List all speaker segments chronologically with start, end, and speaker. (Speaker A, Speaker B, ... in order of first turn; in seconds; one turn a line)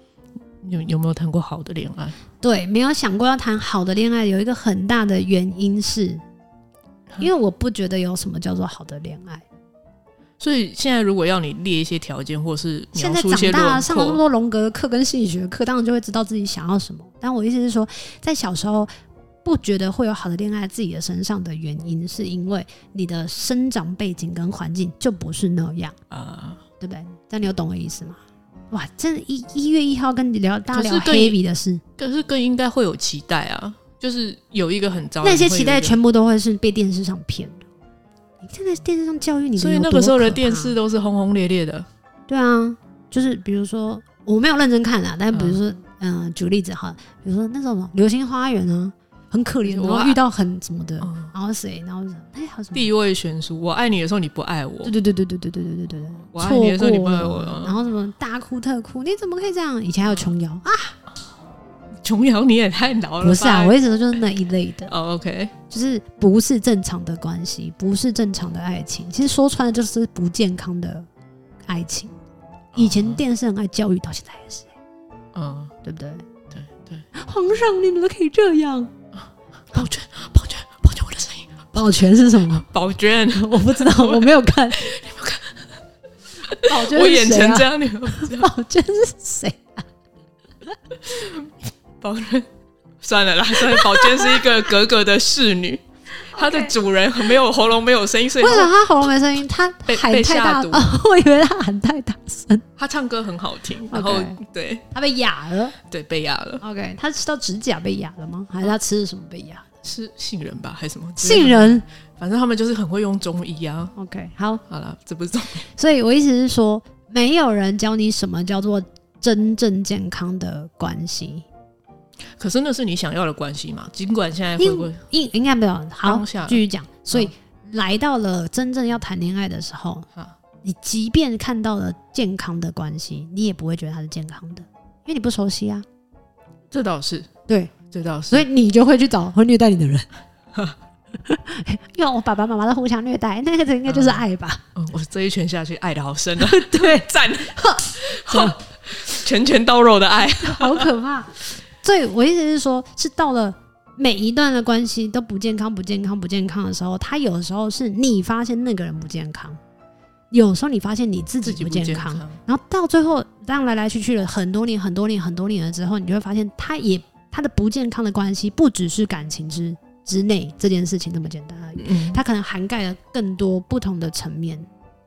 Speaker A: 0.6-2.2
Speaker B: 2.4-6.2
Speaker B: 7.2-9.4
Speaker A: 10.4-14.2
Speaker B: 12.9-18.9
Speaker B: 19.4-26.0
Speaker A: 26.1-26.6
Speaker B: 26.8-28.2
Speaker B: 28.7-31.8
Speaker A: 30.7-31.4
Speaker A: 32.0-36.0
Speaker B: 35.2-37.7
Speaker B: 38.4-40.8
Speaker A: 39.6-41.9
Speaker B: 42.3-52.9
Speaker A: 45.3-45.6
Speaker A: 49.6-50.2
Speaker A: 51.0-51.3
Speaker A: 52.7-55.0
Speaker B: 54.8-61.0
Speaker A: 56.3-57.8
Speaker A: 62.0-63.8
Speaker B: 63.2-64.9
Speaker A: 64.9-65.5
Speaker B: 65.7-71.1
Speaker B: 71.7-72.1
Speaker A: 72.7-73.2
Speaker B: 72.8-74.7
Speaker A: 75.3-75.7
Speaker B: 75.8-76.3
Speaker A: 76.5-77.0
Speaker B: 77.1-78.9
Speaker A: 79.7-81.6
Speaker B: 81.7-82.7
Speaker A: 82.5-85.6
Speaker B: 83.3-84.9
Speaker A: 86.5-88.5
Speaker B: 86.7-89.8
Speaker A: 91.0-91.5
Speaker A: 92.0-92.5
Speaker A: 93.0-98.8
Speaker B: 93.7-94.4
Speaker B: 96.3-96.7
Speaker B: 98.4-102.7
Speaker A: 99.9-101.0
Speaker A: 102.8-104.8
Speaker B: 103.9-104.4
Speaker B: 104.9-105.8
Speaker A: 105.8-106.6
Speaker B: 106.6-109.7
Speaker A: 109.8-113.9
Speaker B: 111.2-111.8
Speaker B: 114.0-114.6
Speaker A: 114.7-115.7
Speaker B: 115.7-121.5
Speaker A: 122.4-125.0
Speaker B: 124.6-130.1
Speaker A: 126.0-127.3
Speaker B: 130.6-135.8
Speaker A: 136.7-137.3
Speaker B: 137.5-137.7
Speaker A: 137.9-138.5
Speaker B: 138.3-140.1
Speaker B: 141.2-144.6
Speaker A: 143.9-150.9
Speaker B: 146.4-148.6
Speaker B: 150.4-159.6
Speaker B: 160.3-174.7
Speaker A: 161.4-162.4
Speaker A: 171.8-172.2